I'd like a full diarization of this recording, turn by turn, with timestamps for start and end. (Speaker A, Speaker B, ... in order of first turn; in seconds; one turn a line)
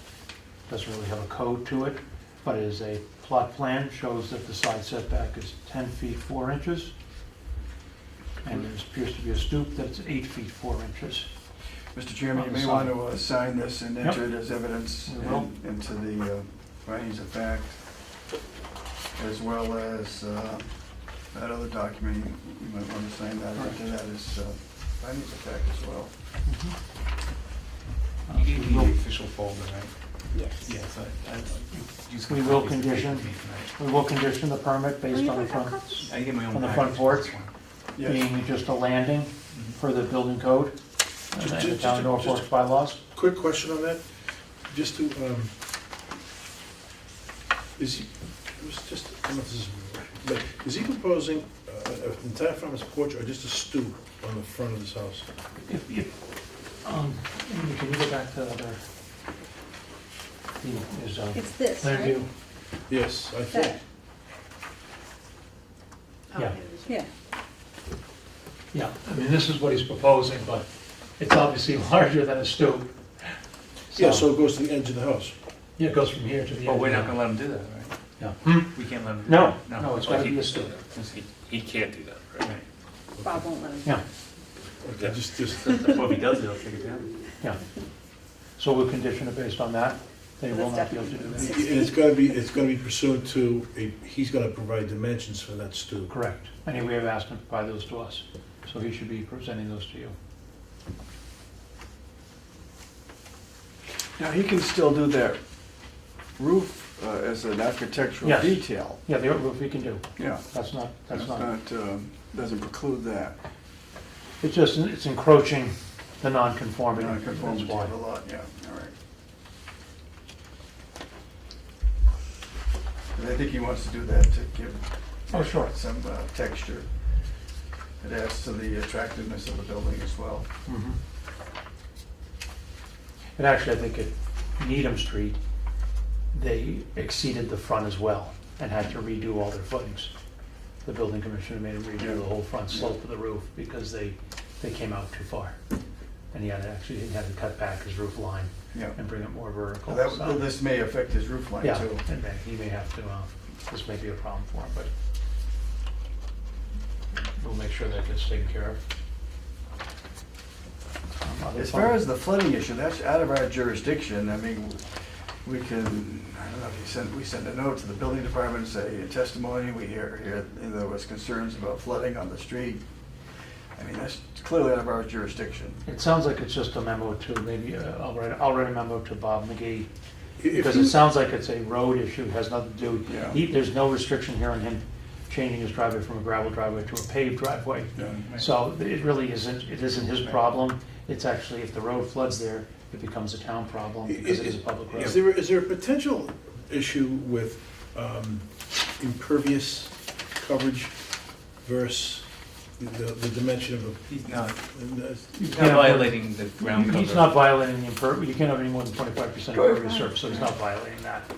Speaker A: 0.7-6.9
Speaker A: 8.4-11.3
Speaker B: 11.9-17.8
Speaker A: 12.3-13.0
Speaker A: 14.0-15.5
Speaker B: 19.2-26.1
Speaker A: 26.4-26.8
Speaker A: 28.3-29.0
Speaker C: 28.3-29.9
Speaker C: 30.6-33.7
Speaker A: 32.3-37.3
Speaker D: 35.1-36.1
Speaker C: 36.0-37.5
Speaker B: 38.0-38.3
Speaker A: 38.0-40.8
Speaker A: 41.3-43.0
Speaker E: 41.4-44.0
Speaker E: 44.7-45.5
Speaker E: 47.8-55.3
Speaker A: 55.6-56.1
Speaker A: 56.8-58.8
Speaker A: 60.6-62.3
Speaker D: 61.4-62.2
Speaker E: 62.9-63.8
Speaker D: 66.3-67.1
Speaker A: 68.7-70.7
Speaker A: 71.2-73.3
Speaker A: 73.9-74.3
Speaker E: 73.9-75.3
Speaker A: 75.8-77.2
Speaker C: 76.7-78.0
Speaker A: 78.2-80.8
Speaker C: 78.7-80.4
Speaker F: 80.0-82.5
Speaker D: 83.2-83.9
Speaker E: 84.8-86.0
Speaker F: 85.0-85.8
Speaker C: 85.8-87.2
Speaker A: 88.6-91.7
Speaker D: 90.5-91.9
Speaker E: 91.4-96.1
Speaker A: 96.1-100.2
Speaker B: 104.2-105.4
Speaker B: 106.4-109.0
Speaker A: 108.2-111.5
Speaker B: 110.2-110.5
Speaker B: 111.1-113.4
Speaker A: 114.4-117.9
Speaker B: 116.9-118.9
Speaker B: 123.1-126.9
Speaker A: 125.3-125.7
Speaker B: 128.0-130.5
Speaker A: 130.7-131.0
Speaker A: 133.4-135.4
Speaker A: 136.3-140.1
Speaker A: 140.8-145.6
Speaker B: 142.0-142.9
Speaker A: 146.3-150.4
Speaker B: 148.7-149.0
Speaker B: 149.9-152.0
Speaker A: 151.6-154.9
Speaker A: 157.4-158.8
Speaker A: 161.2-162.0
Speaker B: 161.6-164.8
Speaker B: 165.4-172.8
Speaker B: 173.8-175.8
Speaker A: 175.9-179.9
Speaker E: 180.4-181.0
Speaker A: 180.5-195.2
Speaker B: 183.1-183.4
Speaker C: 188.1-188.5
Speaker E: 194.1-201.0
Speaker E: 201.6-205.3
Speaker C: 204.1-204.6
Speaker A: 205.4-211.3
Speaker C: 205.4-207.5
Speaker D: 209.6-210.1